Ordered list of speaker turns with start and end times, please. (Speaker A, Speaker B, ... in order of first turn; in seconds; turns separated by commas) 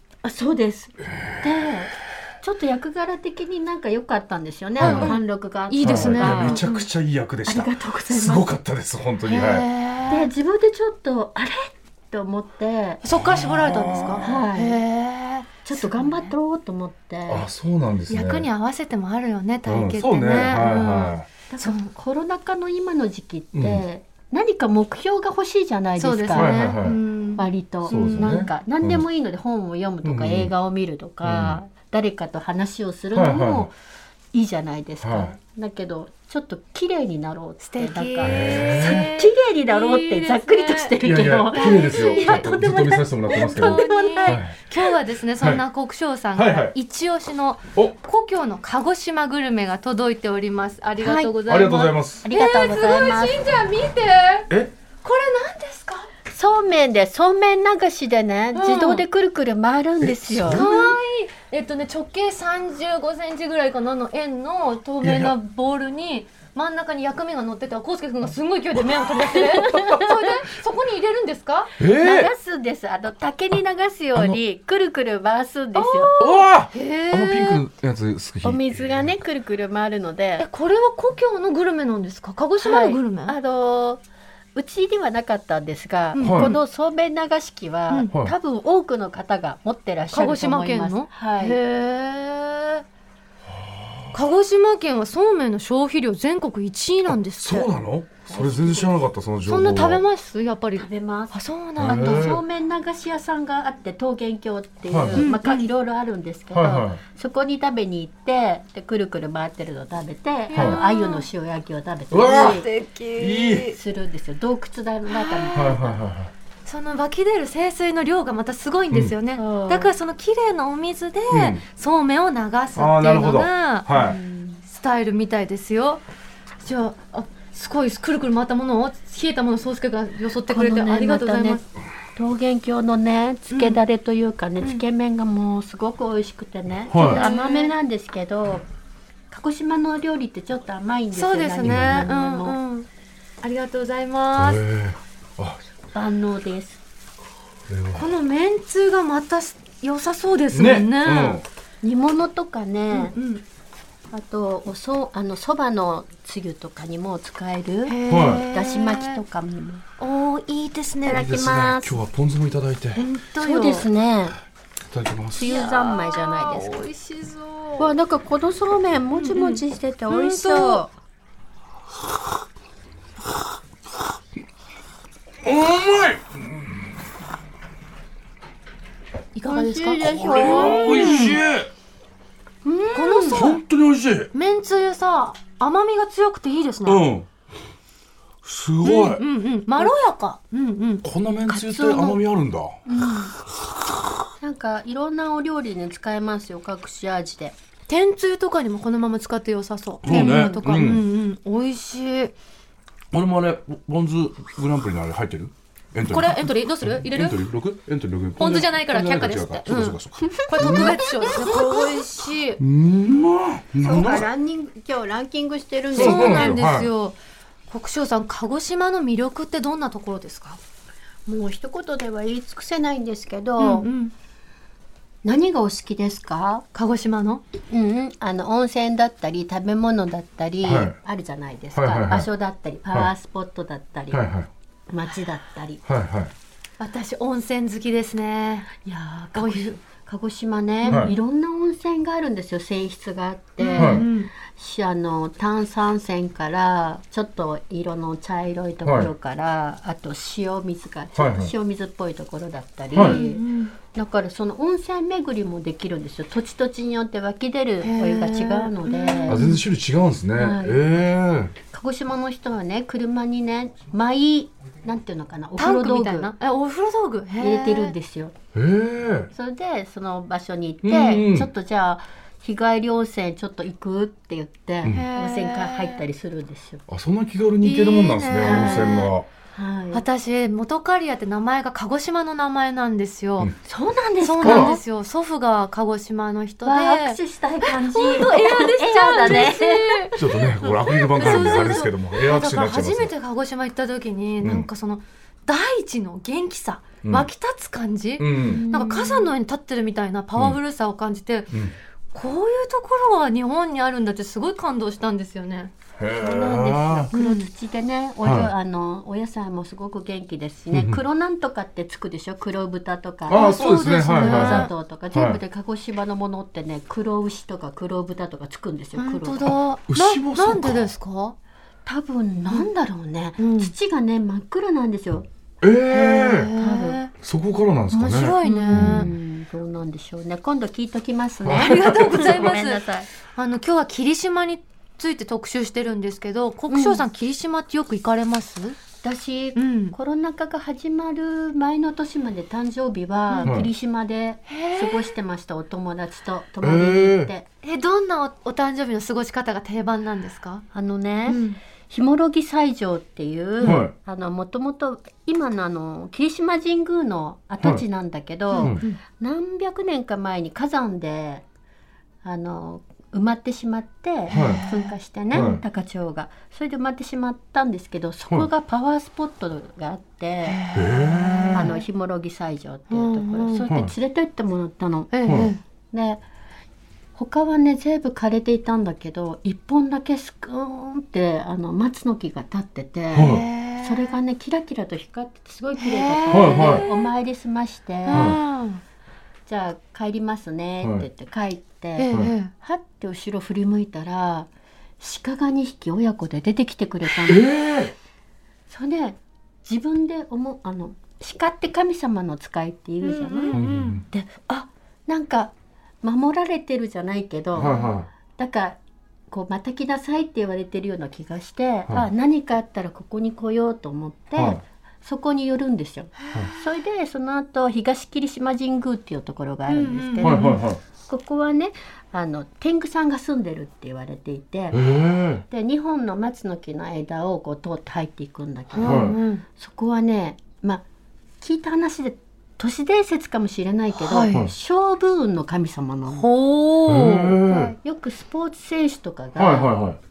Speaker A: 0.2-6.8, Speaker B: 1.1-1.4, Speaker B: 4.8-5.2, Speaker C: 4.8-6.7, Speaker B: 5.8-9.7, Speaker A: 7.5-8.5, Speaker C: 9.3-10.3, Speaker A: 10.1-13.0, Speaker C: 13.0-16.3, Speaker B: 13.1-14.2, Speaker A: 14.2-14.8, Speaker A: 15.6-17.4, Speaker B: 17.3-18.5, Speaker C: 18.1-21.9, Speaker B: 19.6-21.3, Speaker A: 20.5-26.8, Speaker B: 23.5-23.8, Speaker C: 26.0-28.4, Speaker B: 26.3-27.0, Speaker A: 27.4-33.7, Speaker B: 27.9-29.0, Speaker B: 30.0-30.5, Speaker B: 31.2-31.6, Speaker B: 33.1-33.7, Speaker A: 34.3-44.8, Speaker B: 35.0-35.3, Speaker C: 37.6-41.0, Speaker B: 38.2-39.1, Speaker B: 41.0-44.5, Speaker C: 41.5-42.5, Speaker C: 43.3-54.5, Speaker B: 46.3-46.7, Speaker A: 51.0-51.3, Speaker B: 51.5-52.2, Speaker A: 52.2-53.4, Speaker C: 55.0-56.1, Speaker A: 56.3-60.7, Speaker C: 58.5-59.0, Speaker B: 60.0-60.9, Speaker C: 60.5-71.7, Speaker B: 65.0-65.3, Speaker A: 69.3-70.3, Speaker B: 71.8-72.3, Speaker A: 71.9-76.1, Speaker C: 75.7-77.6, Speaker B: 76.2-79.0, Speaker A: 78.4-80.5, Speaker C: 80.4-83.3, Speaker A: 82.6-84.0, Speaker A: 84.5-91.6, Speaker C: 86.1-86.6, Speaker B: 86.2-86.5, Speaker C: 90.1-92.8, Speaker B: 93.5-94.1, Speaker C: 94.1-97.7, Speaker B: 97.1-100.0, Speaker A: 98.3-99.0, Speaker C: 99.5-102.3, Speaker A: 100.8-112.7, Speaker B: 101.8-102.4, Speaker B: 104.9-105.3, Speaker C: 105.2-105.6, Speaker B: 106.5-107.0, Speaker C: 110.5-111.3, Speaker B: 112.1-113.7, Speaker C: 112.2-113.7, Speaker A: 113.6-116.0, Speaker C: 115.1-115.7, Speaker B: 115.5-116.3, Speaker C: 116.6-124.0, Speaker A: 119.3-119.9, Speaker B: 121.3-121.6, Speaker B: 122.7-124.2, Speaker A: 123.9-124.6, Speaker C: 124.7-126.0, Speaker C: 126.6-131.6, Speaker A: 130.5-131.6, Speaker A: 132.2-138.6, Speaker C: 133.5-133.8, Speaker B: 136.9-137.2, Speaker C: 137.0-137.7, Speaker A: 139.3-142.6, Speaker C: 141.1-142.9, Speaker B: 141.6-142.1, Speaker C: 143.4-144.6, Speaker B: 144.3-145.6, Speaker A: 145.9-146.8, Speaker B: 147.7-148.1, Speaker C: 147.9-151.4, Speaker B: 150.5-151.4, Speaker A: 151.8-153.2, Speaker C: 152.9-153.4, Speaker A: 154.1-159.8, Speaker C: 157.8-159.2, Speaker B: 158.1-158.4, Speaker C: 160.0-161.3, Speaker A: 161.0-162.0, Speaker B: 161.1-163.0, Speaker C: 162.9-163.9, Speaker A: 163.4-164.3, Speaker B: 164.9-165.6, Speaker A: 165.3-166.8, Speaker C: 165.4-167.9, Speaker A: 167.8-170.9, Speaker C: 169.1-170.8, Speaker B: 175.4-176.9, Speaker C: 179.3-181.4, Speaker A: 179.5-181.3, Speaker B: 180.0-181.7, Speaker A: 182.6-183.4, Speaker C: 182.9-183.6, Speaker B: 183.3-184.3, Speaker C: 184.3-187.0, Speaker B: 186.8-187.3, Speaker B: 188.4-189.2, Speaker C: 188.8-191.0, Speaker B: 191.0-192.8, Speaker A: 191.5-192.2, Speaker A: 192.8-193.3, Speaker A: 194.4-197.5, Speaker C: 197.9-202.3, Speaker B: 200.0-201.1, Speaker A: 200.1-200.5, Speaker B: 203.1-211.0, Speaker C: 206.1-207.4, Speaker C: 208.4-212.6, Speaker A: 210.3-211.3, Speaker B: 212.6-214.2, Speaker A: 213.8-216.6, Speaker B: 215.9-216.9, Speaker C: 215.9-217.2, Speaker C: 217.7-220.6, Speaker A: 221.2-223.9, Speaker C: 223.6-224.1, Speaker A: 225.2-226.6, Speaker C: 226.7-227.4, Speaker A: 227.7-234.3, Speaker B: 230.6-230.9, Speaker B: 231.7-232.3, Speaker B: 234.1-234.5, Speaker A: 234.9-235.8, Speaker B: 235.8-236.3, Speaker C: 236.8-238.8, Speaker A: 238.8-259.4, Speaker C: 239.3-239.8, Speaker C: 240.8-241.1, Speaker B: 240.9-241.1, Speaker C: 243.6-244.3, Speaker B: 243.7-244.0, Speaker B: 248.8-249.1, Speaker B: 251.1-251.5, Speaker B: 252.9-253.2, Speaker C: 252.9-253.7, Speaker C: 257.8-259.6, Speaker B: 259.3-261.5, Speaker A: 260.4-260.9, Speaker A: 261.7-266.3, Speaker C: 265.6-267.9, Speaker A: 267.4-268.3, Speaker B: 268.5-269.3, Speaker A: 269.3-276.8, Speaker B: 270.8-271.5, Speaker C: 274.9-276.0, Speaker B: 276.9-279.3, Speaker C: 277.6-279.1, Speaker A: 278.4-280.0, Speaker C: 279.9-283.5, Speaker A: 283.6-284.8, Speaker C: 284.2-290.2, Speaker B: 284.4-284.8, Speaker A: 286.6-291.9, Speaker B: 290.2-293.1, Speaker C: 290.9-301.6, Speaker B: 294.4-294.7, Speaker B: 297.0-297.3, Speaker B: 298.2-298.6, Speaker A: 298.4-299.3, Speaker C: 302.1-305.7, Speaker B: 306.0-307.1, Speaker A: 306.2-319.5, Speaker C: 307.1-307.5, Speaker B: 308.2-308.5, Speaker B: 310.7-311.0, Speaker B: 313.3-315.4, Speaker C: 313.3-314.7, Speaker C: 318.9-321.4, Speaker B: 319.9-320.9, Speaker A: 321.9-325.3, Speaker C: 323.4-323.7, Speaker B: 325.6-326.5, Speaker C: 325.9-327.1, Speaker A: 326.6-327.0, Speaker B: 327.2-329.1, Speaker C: 327.9-329.1, Speaker A: 328.4-333.1, Speaker B: 331.4-331.9, Speaker C: 331.5-338.8, Speaker A: 336.7-337.0, Speaker A: 339.0-347.5, Speaker C: 339.6-339.9, Speaker C: 344.5-345.1, Speaker B: 346.6-347.3, Speaker C: 347.6-350.6, Speaker A: 350.7-361.4, Speaker C: 351.3-351.6, Speaker B: 353.6-353.9, Speaker C: 358.5-359.0, Speaker B: 358.6-358.8, Speaker A: 362.2-370.6, Speaker B: 364.3-364.6, Speaker C: 364.3-364.9, Speaker B: 365.3-365.6, Speaker C: 370.4-371.8, Speaker B: 370.7-371.6, Speaker A: 371.5-376.2, Speaker C: 372.9-373.7, Speaker C: 375.1-375.6, Speaker B: 375.2-375.5, Speaker A: 377.1-388.4, Speaker B: 383.1-383.4, Speaker C: 383.1-384.2, Speaker C: 385.8-387.1, Speaker B: 386.3-386.8, Speaker C: 388.1-388.8, Speaker B: 388.1-388.4, Speaker A: 389.5-394.5, Speaker C: 392.0-392.5, Speaker A: 395.0-397.5, Speaker B: 397.2-397.9, Speaker A: 398.7-407.7, Speaker C: 403.0-404.0, Speaker B: 403.5-404.0, Speaker B: 407.5-408.1, Speaker C: 407.6-407.9, Speaker A: 408.4-408.8, Speaker A: 409.3-424.9, Speaker B: 414.4-414.6, Speaker C: 419.7-420.6, Speaker B: 420.2-420.8, Speaker B: 424.7-425.4, Speaker A: 425.5-430.8, Speaker C: 428.8-429.4, Speaker B: 428.8-429.2, Speaker A: 431.4-436.2, Speaker C: 434.0-434.4, Speaker C: 436.1-437.7, Speaker B: 436.9-437.7, Speaker A: 437.8-439.7, Speaker B: 439.4-440.0